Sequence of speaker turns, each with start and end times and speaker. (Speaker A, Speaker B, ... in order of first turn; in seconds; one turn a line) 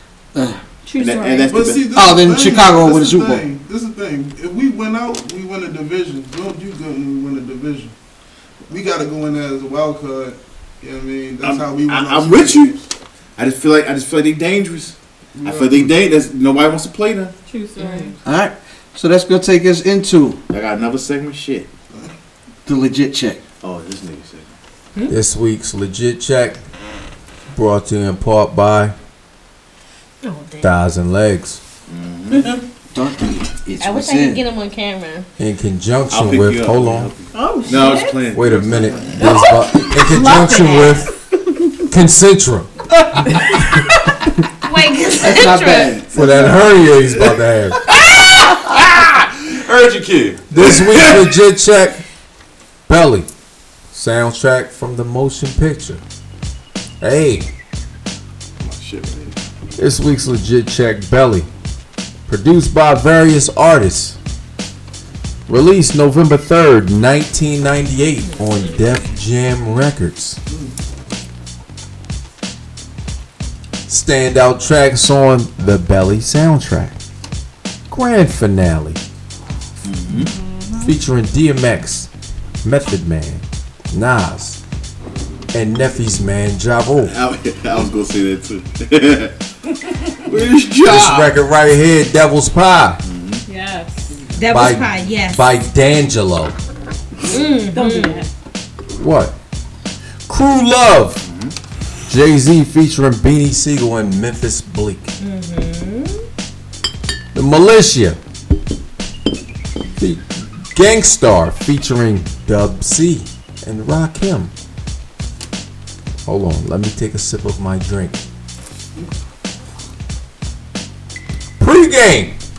Speaker A: 0.3-0.6
Speaker B: 0.8-1.6
Speaker C: 1.0-1.9
Speaker D: 1.4-7.9
Speaker A: 1.9-3.4
Speaker D: 8.7-12.8
Speaker C: 11.4-12.7
Speaker C: 13.4-17.3
Speaker D: 15.3-16.0
Speaker B: 17.5-18.1
Speaker E: 17.8-18.1
Speaker A: 18.2-20.4
Speaker C: 20.5-21.7
Speaker A: 22.6-23.4
Speaker C: 23.6-24.5
Speaker F: 25.1-26.6
Speaker F: 27.5-28.9
Speaker E: 30.2-30.7
Speaker F: 30.6-31.6
Speaker C: 31.9-32.6
Speaker A: 32.9-34.4
Speaker E: 33.8-35.3
Speaker F: 35.4-37.1
Speaker C: 36.1-39.2
Speaker B: 37.3-38.2
Speaker F: 38.3-41.1
Speaker B: 39.2-41.1
Speaker F: 41.9-42.7
Speaker E: 44.6-45.9
Speaker A: 45.2-46.6
Speaker F: 46.1-47.8
Speaker C: 46.9-47.2
Speaker C: 47.8-51.4
Speaker F: 50.5-52.0
Speaker F: 52.9-53.3
Speaker F: 53.9-56.0
Speaker F: 57.0-57.5
Speaker C: 58.6-59.4
Speaker F: 59.8-61.5
Speaker F: 62.3-64.2
Speaker F: 65.5-70.4
Speaker D: 70.5-70.8
Speaker F: 73.9-77.0
Speaker F: 77.9-79.0
Speaker C: 79.8-80.3
Speaker B: 80.2-80.9
Speaker F: 80.8-82.1
Speaker F: 82.6-84.6
Speaker F: 85.5-87.1
Speaker C: 87.0-89.3
Speaker C: 90.2-91.3
Speaker F: 90.8-93.0
Speaker C: 93.0-93.4
Speaker B: 93.5-94.2
Speaker E: 94.3-95.4
Speaker F: 94.5-96.6
Speaker E: 97.3-98.2
Speaker B: 97.3-98.3
Speaker F: 99.0-99.3
Speaker F: 100.3-101.2
Speaker C: 101.2-101.5
Speaker F: 102.1-105.1
Speaker E: 105.2-106.2
Speaker F: 107.3-108.2
Speaker F: 110.0-114.5
Speaker F: 116.2-118.2
Speaker F: 121.6-122.4